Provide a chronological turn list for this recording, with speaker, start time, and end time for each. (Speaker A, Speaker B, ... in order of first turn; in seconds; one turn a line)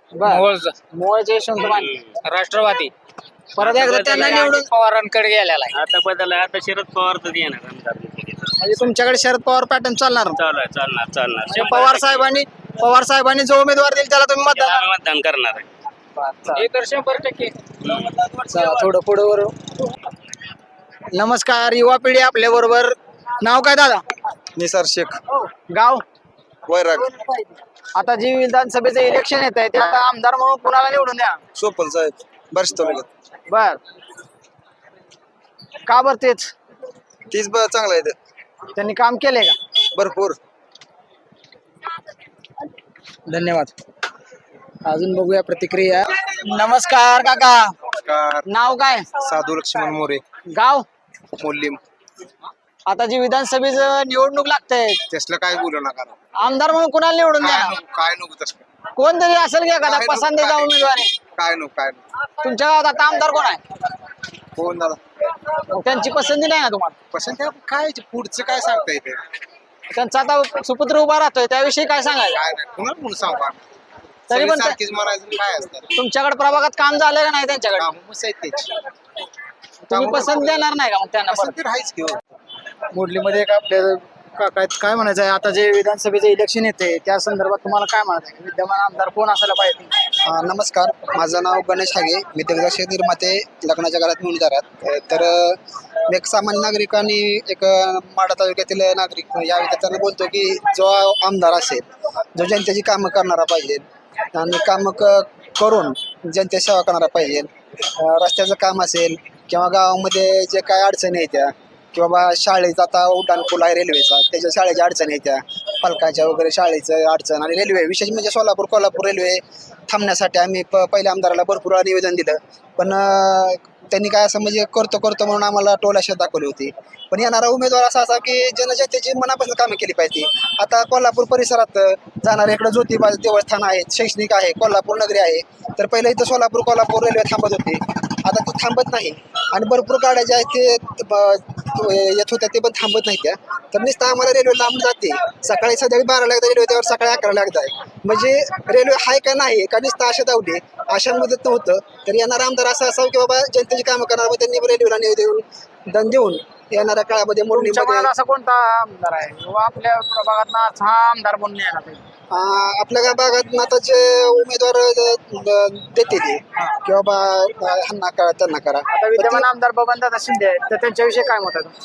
Speaker A: 0.1-1.9
Speaker B: 0.3-0.7
Speaker C: 1.6-2.0
Speaker B: 2.2-2.9
Speaker B: 3.6-5.7
Speaker A: 3.6-4.7
Speaker C: 3.6-4.5
Speaker C: 5.7-8.5
Speaker A: 8.6-10.4
Speaker C: 10.3-12.2
Speaker A: 11.5-14.8
Speaker C: 14.5-15.6
Speaker A: 16.2-16.6
Speaker B: 16.6-17.5
Speaker C: 17.8-18.2
Speaker A: 18.5-19.5
Speaker A: 21.1-24.0
Speaker D: 24.6-25.2
Speaker A: 25.3-26.0
Speaker D: 26.7-27.0
Speaker A: 27.0-27.4
Speaker A: 27.9-31.4
Speaker D: 31.6-33.1
Speaker A: 33.5-33.8
Speaker A: 35.9-36.5
Speaker D: 37.3-38.1
Speaker A: 38.8-39.6
Speaker D: 40.0-40.4
Speaker A: 43.3-43.8
Speaker A: 44.8-47.7
Speaker D: 48.0-48.4
Speaker A: 48.5-49.1
Speaker D: 49.2-50.2
Speaker A: 50.5-50.8
Speaker D: 51.4-51.8
Speaker A: 52.9-55.0
Speaker D: 55.1-56.1
Speaker A: 56.4-57.8
Speaker D: 57.4-58.6
Speaker A: 59.0-61.1
Speaker D: 59.8-60.7
Speaker D: 61.4-62.0
Speaker A: 62.4-63.6
Speaker D: 64.6-65.0
Speaker A: 65.7-67.0
Speaker D: 67.1-69.2
Speaker A: 69.9-72.4
Speaker D: 72.3-73.6
Speaker A: 74.3-74.8
Speaker D: 74.3-75.9
Speaker A: 75.9-77.9
Speaker D: 77.8-78.7
Speaker A: 79.9-81.6
Speaker D: 79.9-80.3
Speaker D: 81.3-82.2
Speaker A: 82.9-89.9
Speaker E: 90.2-158.1
Speaker A: 157.5-162.0
Speaker E: 162.3-169.4
Speaker A: 168.9-171.7